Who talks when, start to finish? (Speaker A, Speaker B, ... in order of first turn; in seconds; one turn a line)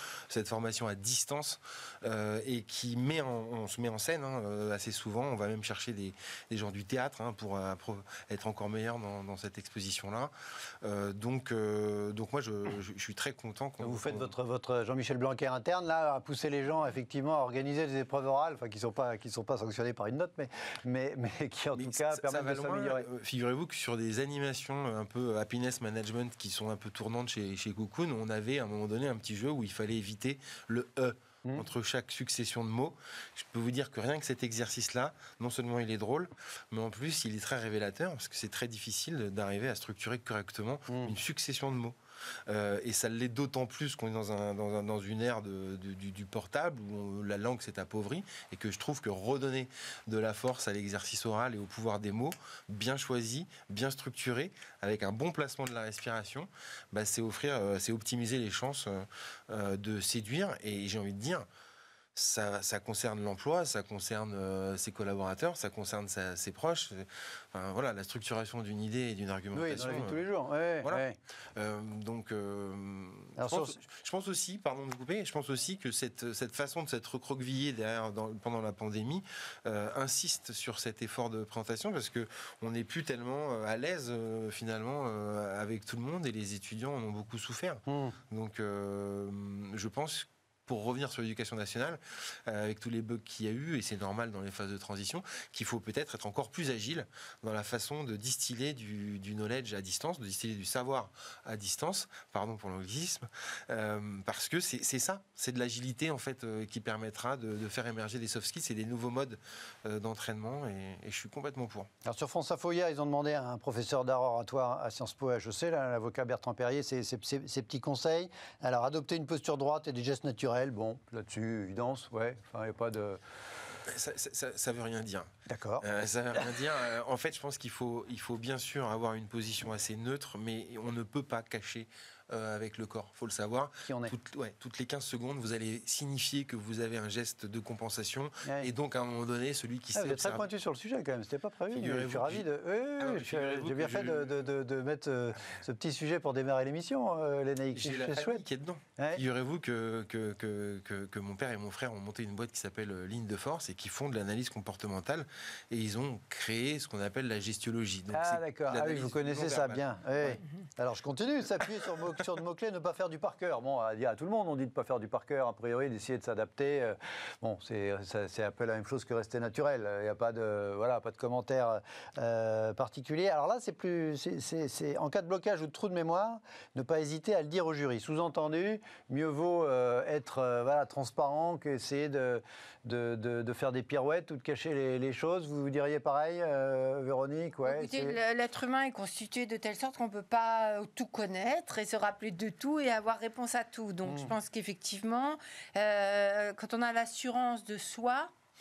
Speaker A: 0.3-10.3
Speaker A: 10.8-14.3
Speaker B: 13.8-23.1
Speaker A: 21.8-42.0
Speaker B: 40.9-41.1
Speaker A: 42.5-61.5
Speaker A: 62.1-70.3
Speaker B: 69.5-71.2
Speaker A: 71.6-111.9
Speaker B: 73.4-73.8
Speaker B: 87.9-88.2
Speaker B: 112.0-123.2
Speaker A: 123.9-125.3
Speaker B: 125.5-126.5
Speaker A: 125.8-140.4
Speaker B: 133.8-134.1
Speaker B: 138.4-138.7
Speaker B: 139.9-148.4
Speaker A: 141.7-142.5
Speaker A: 143.0-144.3
Speaker A: 147.7-160.4
Speaker B: 149.0-149.2
Speaker B: 158.1-188.2
Speaker C: 187.7-198.3
Speaker B: 194.1-194.3